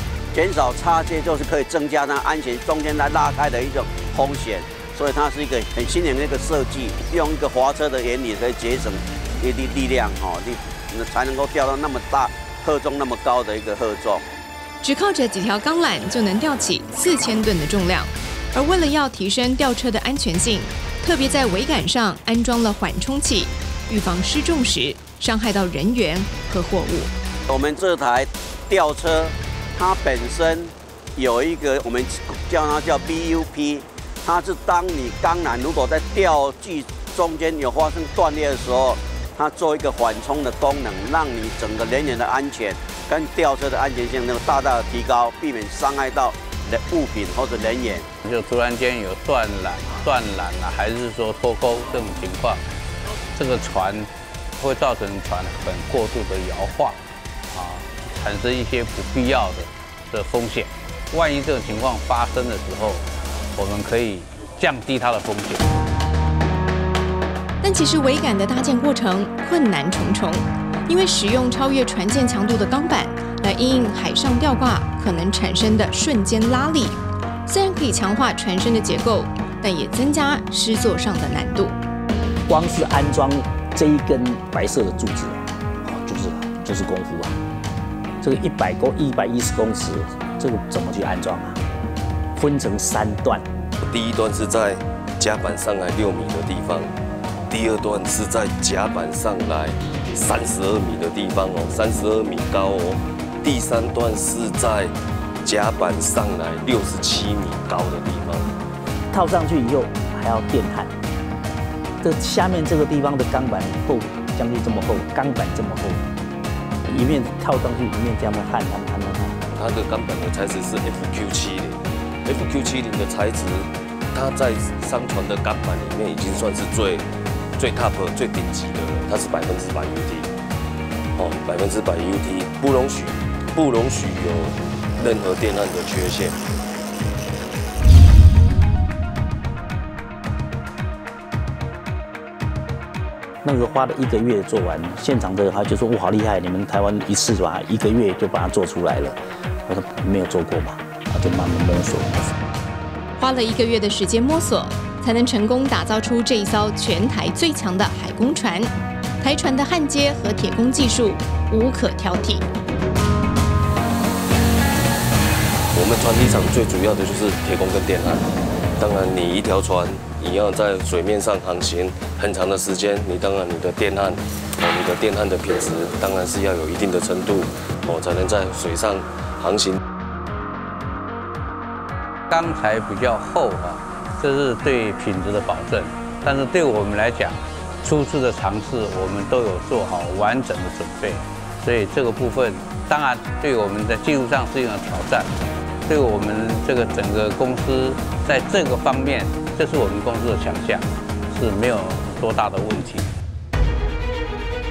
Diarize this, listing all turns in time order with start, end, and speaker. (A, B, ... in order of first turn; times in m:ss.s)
0:00.3-0:14.2 A
0:14.8-0:27.1 B
0:27.5-0:48.1 A
0:48.2-0:52.6 C
0:53.4-0:57.0 C
0:57.5-1:05.7 C
1:07.6-1:21.8 B
1:22.5-1:27.4 D
1:28.2-1:31.6 D
1:32.4-1:33.4 D
1:33.8-1:36.9 E
1:37.5-1:48.5 E
1:49.1-1:50.9 D
1:52.0-1:56.0 D
1:56.9-1:59.4 D
1:59.5-2:07.1 E
2:07.6-2:10.3 E
2:11.2-2:16.4 E
2:23.4-2:32.4 D
2:33.2-2:42.5 B
2:45.7-2:59.8 E
3:02.3-3:23.1 C